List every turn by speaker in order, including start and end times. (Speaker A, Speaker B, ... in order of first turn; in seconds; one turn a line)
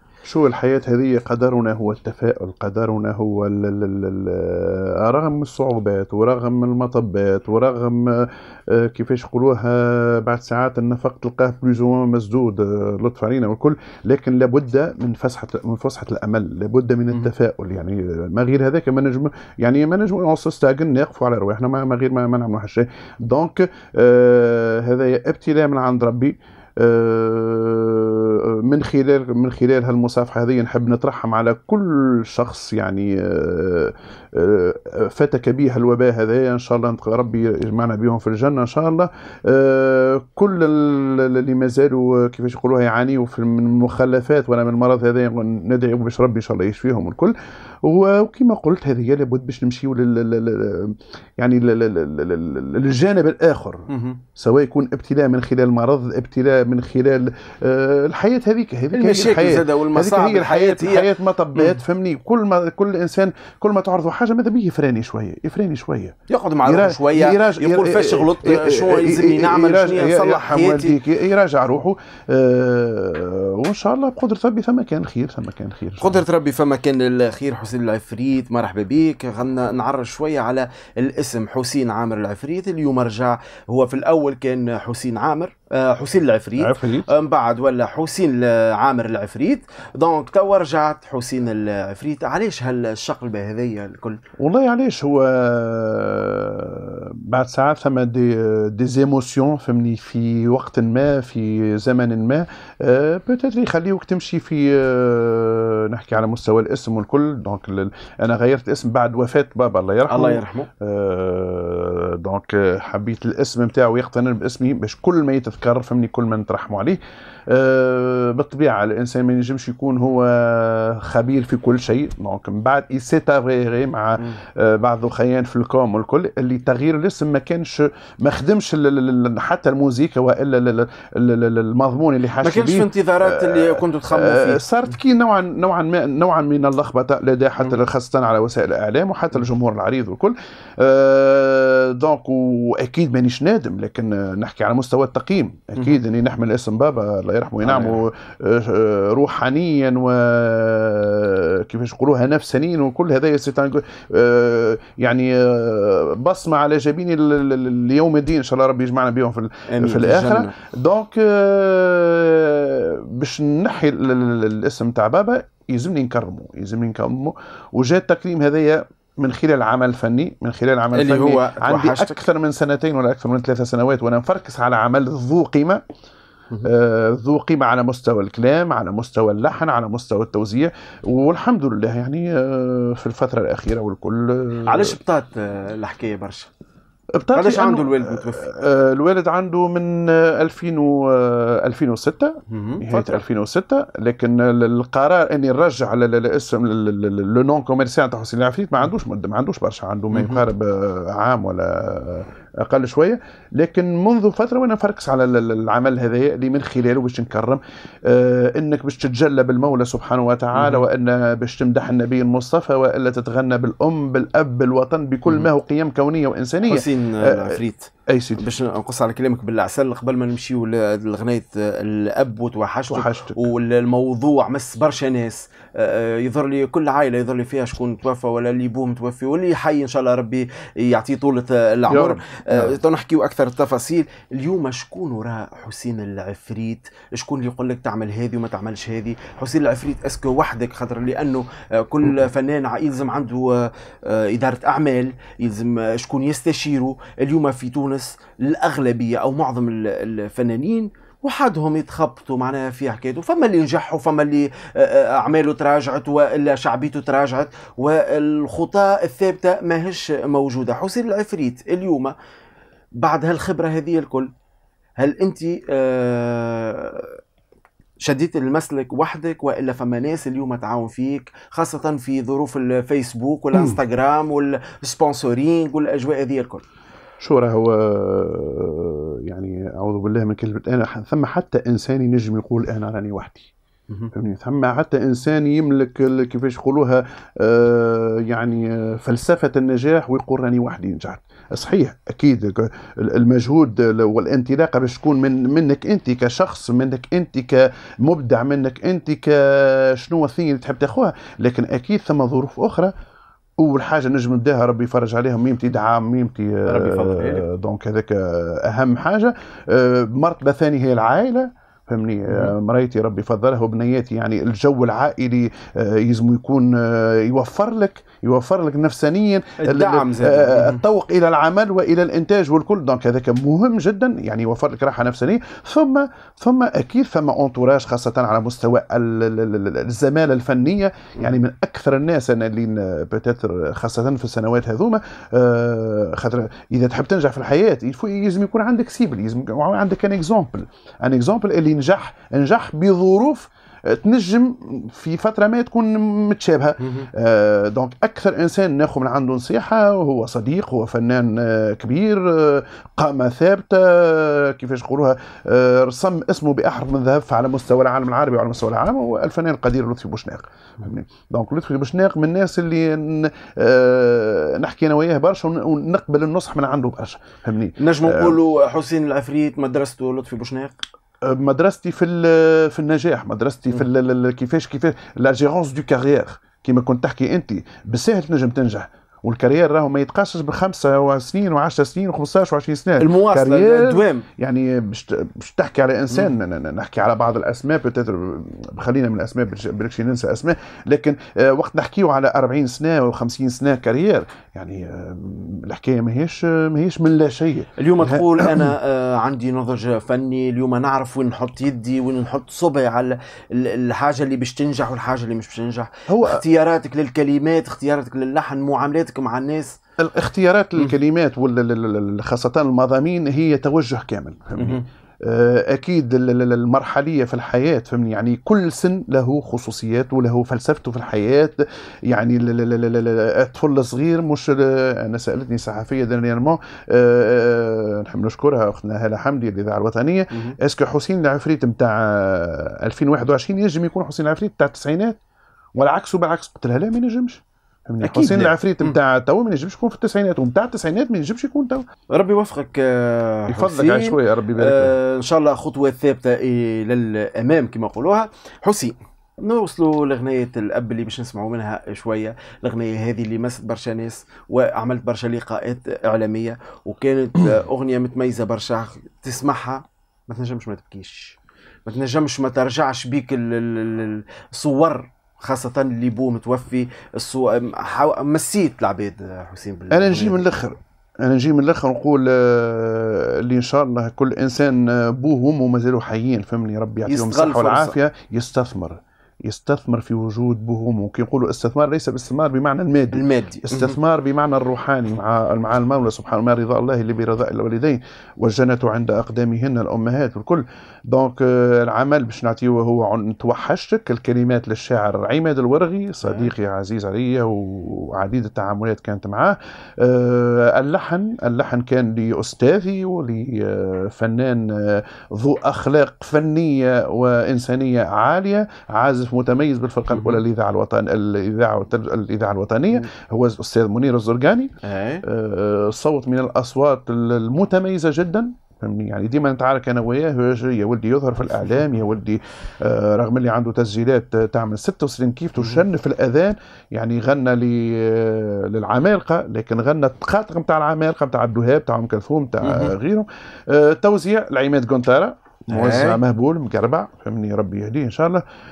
Speaker A: 0.2-76.2
Speaker B: 53.9-54.2
Speaker B: 58.9-61.8
Speaker B: 66.3-71.0
Speaker B: 76.0-94.2
Speaker A: 86.6-87.1
Speaker A: 94.4-175.8
Speaker B: 110.1-110.7
Speaker B: 132.4-134.6
Speaker B: 147.6-148.0
Speaker B: 159.7-160.5
Speaker B: 170.9-172.2
Speaker A: 176.6-185.0
Speaker B: 184.7-186.5
Speaker A: 187.2-217.5
Speaker B: 187.3-188.5
Speaker B: 192.5-193.2
Speaker B: 200.1-200.4
Speaker B: 210.5-210.8
Speaker B: 216.7-262.1
Speaker A: 218.1-218.4
Speaker A: 222.9-223.4
Speaker A: 231.9-232.7
Speaker B: 263.0-264.3
Speaker B: 265.0-267.2
Speaker B: 268.0-276.6
Speaker A: 273.5-273.8
Speaker A: 277.2-283.5
Speaker A: 284.1-302.9
Speaker A: 303.6-368.4
Speaker B: 306.6-307.4
Speaker B: 312.3-312.5
Speaker B: 319.6-320.8
Speaker B: 346.8-347.1
Speaker B: 367.8-370.8
Speaker A: 371.2-398.7
Speaker B: 383.0-384.2
Speaker B: 397.8-409.7
Speaker A: 406.1-406.4
Speaker A: 410.0-435.2
Speaker B: 414.6-414.8
Speaker A: 435.8-441.8
Speaker B: 438.0-439.0
Speaker B: 442.1-470.4
Speaker A: 443.5-444.9
Speaker A: 469.9-514.7
Speaker B: 477.1-477.9
Speaker B: 483.1-484.0
Speaker B: 496.2-496.5
Speaker B: 510.1-510.4
Speaker B: 514.8-515.2
Speaker A: 515.2-538.4
Speaker B: 532.6-532.9
Speaker B: 535.7-536.2